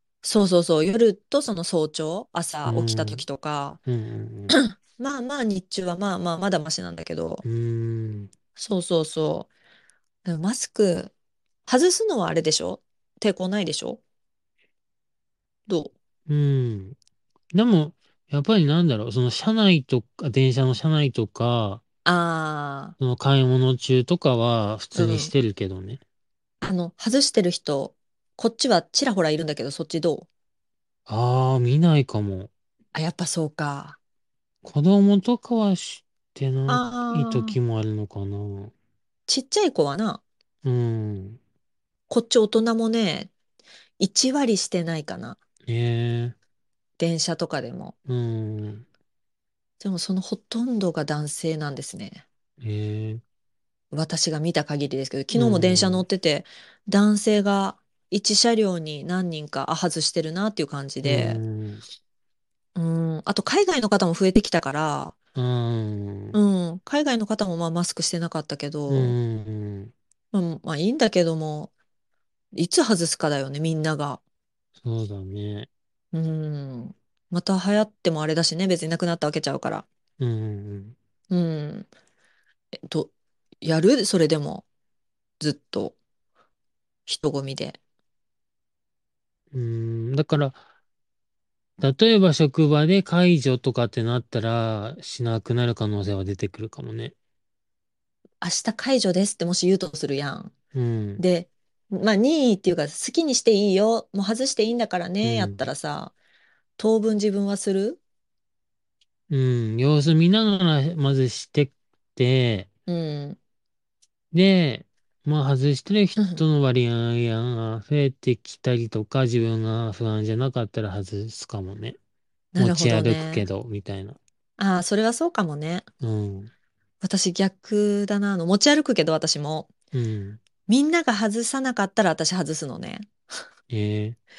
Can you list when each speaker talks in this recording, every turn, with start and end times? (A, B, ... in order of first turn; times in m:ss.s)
0:00.2-0:03.8 A
0:02.6-0:03.2 B
0:03.9-0:04.6 B
0:04.5-0:07.4 A
0:07.4-0:08.3 B
0:08.6-0:09.5 A
0:10.2-0:11.1 A
0:11.7-0:14.0 A
0:15.7-0:15.9 A
0:16.3-0:17.0 B
0:17.5-0:21.8 B
0:22.0-0:23.0 A
0:23.0-0:26.0 B
0:25.0-0:25.3 A
0:26.6-0:30.3 A
0:31.1-0:32.5 B
0:32.9-0:34.0 A
0:34.6-0:38.7 B
0:36.7-0:37.6 A
0:39.3-0:40.2 A
0:40.6-0:41.4 B
0:42.1-0:43.3 A
0:44.0-0:45.4 A
0:45.7-0:46.4 B
0:47.0-0:47.9 A
0:48.1-0:48.8 B
0:49.8-0:52.2 A
0:52.6-0:53.2 B
0:53.9-1:01.4 A
0:55.3-0:56.0 B
1:01.0-1:01.8 B
1:02.8-1:05.2 A
1:05.4-1:06.4 B
1:06.3-1:09.2 A
1:08.9-1:09.9 B
1:10.3-1:11.7 A
1:12.5-1:14.2 A
1:14.8-1:15.7 B
1:16.1-1:19.8 A
1:20.2-1:21.0 B
1:21.3-1:21.9 A
1:22.8-1:23.1 A
1:23.6-1:24.6 A
1:25.4-1:26.0 A
1:27.1-1:27.8 A
1:29.5-1:30.6 B
1:31.8-1:37.2 B
1:38.4-1:40.5 A
1:40.7-1:41.2 B
1:41.2-1:46.1 A
1:45.2-1:45.6 B
1:46.8-1:48.0 A
1:49.3-1:52.7 B
1:52.9-1:53.4 A
1:54.3-2:02.0 B
1:56.2-1:56.4 A
2:02.5-2:03.5 A
2:02.6-2:04.2 B
2:04.6-2:05.8 A
2:06.0-2:06.5 B
2:07.0-2:09.7 A
2:09.9-2:10.4 B
2:10.7-2:13.1 A
2:13.7-2:14.2 B